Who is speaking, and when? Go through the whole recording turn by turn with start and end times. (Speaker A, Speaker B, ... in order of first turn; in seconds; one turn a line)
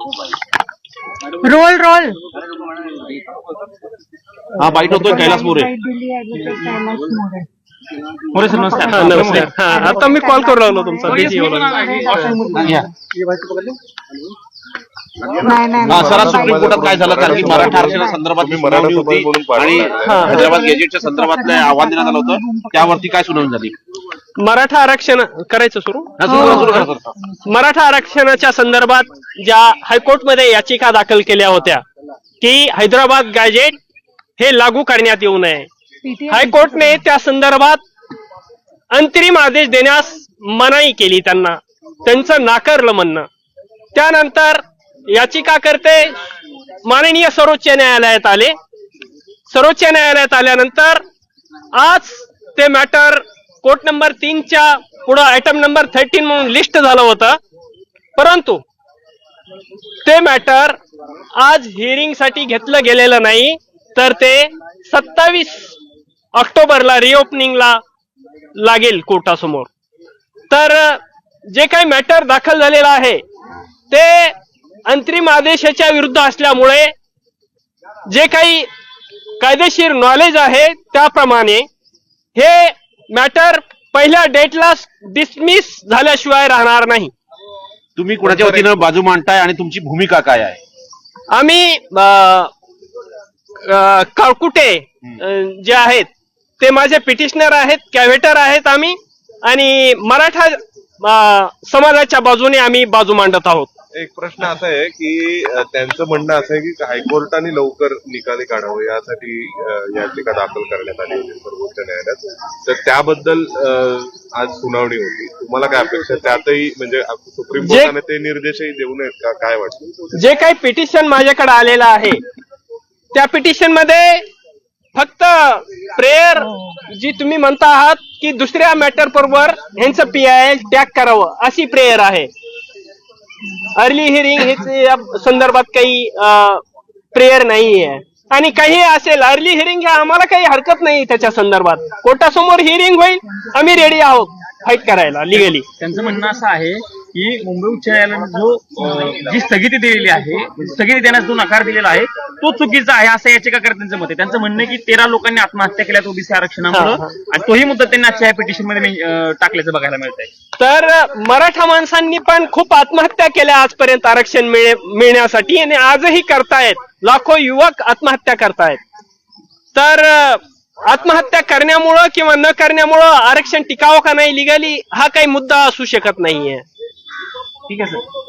Speaker A: 1.4-2.2
Speaker B: 4.6-5.7
Speaker A: 4.8-7.5
Speaker C: 8.3-9.5
Speaker A: 8.5-12.9
Speaker D: 8.9-11.8
Speaker C: 11.1-12.8
Speaker B: 12.6-12.9
Speaker A: 15.4-16.9
Speaker E: 15.7-20.7
Speaker B: 15.8-23.8
Speaker D: 20.0-20.5
Speaker A: 20.4-23.1
Speaker D: 24.4-26.8
Speaker B: 26.2-27.1
Speaker A: 26.2-27.4
Speaker D: 27.4-31.8
Speaker D: 32.4-33.8
Speaker D: 34.4-35.7
Speaker A: 36.0-37.0
Speaker D: 36.3-37.8
Speaker D: 38.9-43.3
Speaker D: 43.9-46.2
Speaker D: 46.9-48.5
Speaker D: 49.5-51.0
Speaker D: 51.8-57.4
Speaker D: 58.2-58.6
Speaker D: 60.0-60.8
Speaker D: 61.4-65.8
Speaker D: 66.3-67.8
Speaker D: 68.6-69.7
Speaker D: 70.5-73.2
Speaker D: 73.9-74.3
Speaker D: 74.9-76.9
Speaker D: 78.1-78.7
Speaker D: 79.4-81.7
Speaker D: 82.3-87.1
Speaker B: 88.0-90.6
Speaker E: 88.2-88.7
Speaker D: 91.3-92.5
Speaker D: 93.6-96.1
Speaker D: 96.6-103.7
Speaker E: 104.0-120.0
Speaker D: 117.6-117.9
Speaker D: 120.1-122.2
Speaker D: 123.1-124.2
Speaker D: 125.0-132.3
Speaker D: 133.6-145.7
Speaker C: 145.8-160.3
Speaker D: 156.7-157.2
Speaker D: 160.6-168.8
Speaker D: 169.7-176.7
Speaker C: 177.7-178.0